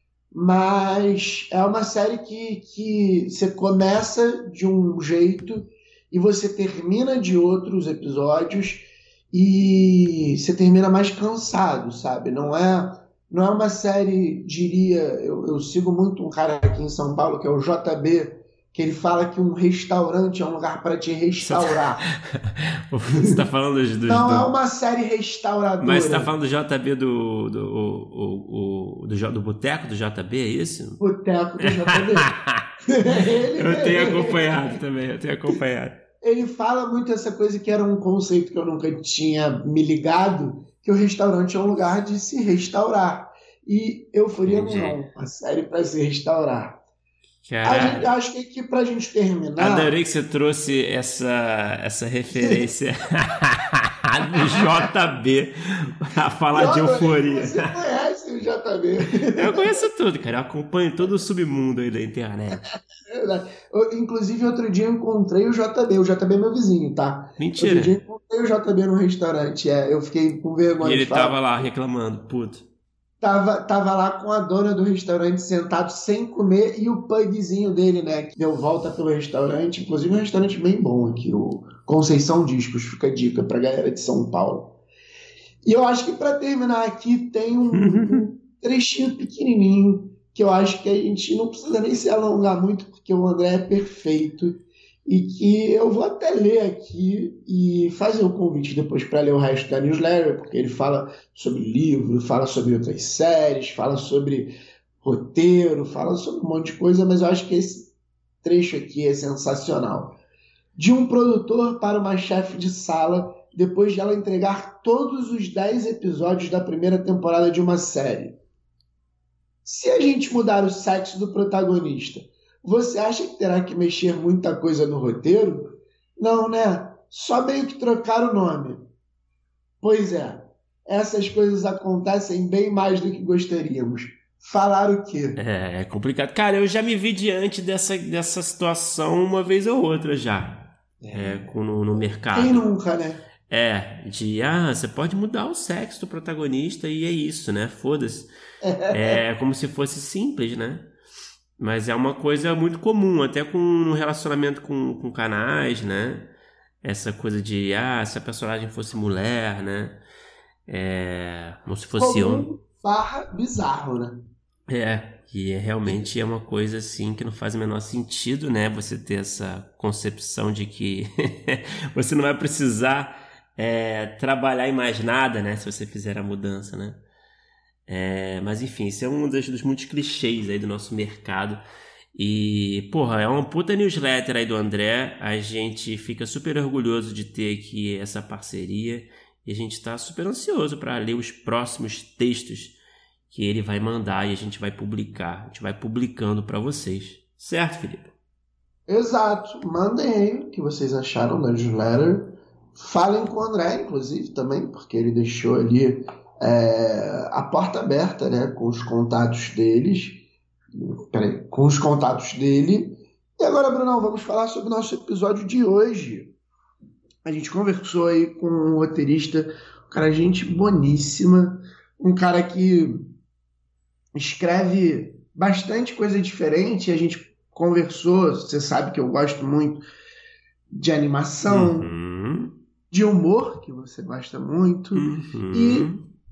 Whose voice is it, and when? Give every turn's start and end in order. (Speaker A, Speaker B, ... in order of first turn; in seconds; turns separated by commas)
Speaker A: 0.3-22.0, Speaker B: 21.4-24.5, Speaker A: 24.1-26.3, Speaker B: 25.8-31.0, Speaker A: 31.0-32.3, Speaker B: 31.9-32.6, Speaker A: 32.9-34.6, Speaker B: 33.5-36.0, Speaker A: 36.2-46.8, Speaker B: 44.5-45.0, Speaker B: 47.4-48.1, Speaker A: 47.6-49.9, Speaker B: 49.6-57.7, Speaker A: 56.5-59.6, Speaker B: 59.4-62.6, Speaker A: 63.1-71.4, Speaker B: 67.4-68.0, Speaker B: 70.8-72.7, Speaker A: 73.2-84.8, Speaker A: 85.7-104.5, Speaker B: 87.7-88.3, Speaker A: 105.0-107.9, Speaker A: 108.4-110.2, Speaker A: 110.8-118.4, Speaker A: 119.7-128.8, Speaker A: 129.8-135.4, Speaker B: 135.4-142.7, Speaker A: 141.0-141.5, Speaker A: 142.3-143.2, Speaker B: 143.5-148.3, Speaker A: 148.7-149.0, Speaker B: 148.9-150.9, Speaker B: 151.6-156.3, Speaker B: 156.8-160.0, Speaker B: 160.7-162.5, Speaker A: 162.0-164.2, Speaker B: 164.7-177.0, Speaker B: 177.9-181.6, Speaker B: 182.2-198.1, Speaker A: 198.9-210.2, Speaker A: 211.1-216.3, Speaker A: 217.2-223.0, Speaker A: 224.2-229.8, Speaker A: 230.7-231.9, Speaker B: 231.5-232.6, Speaker A: 232.9-235.9, Speaker B: 234.9-236.1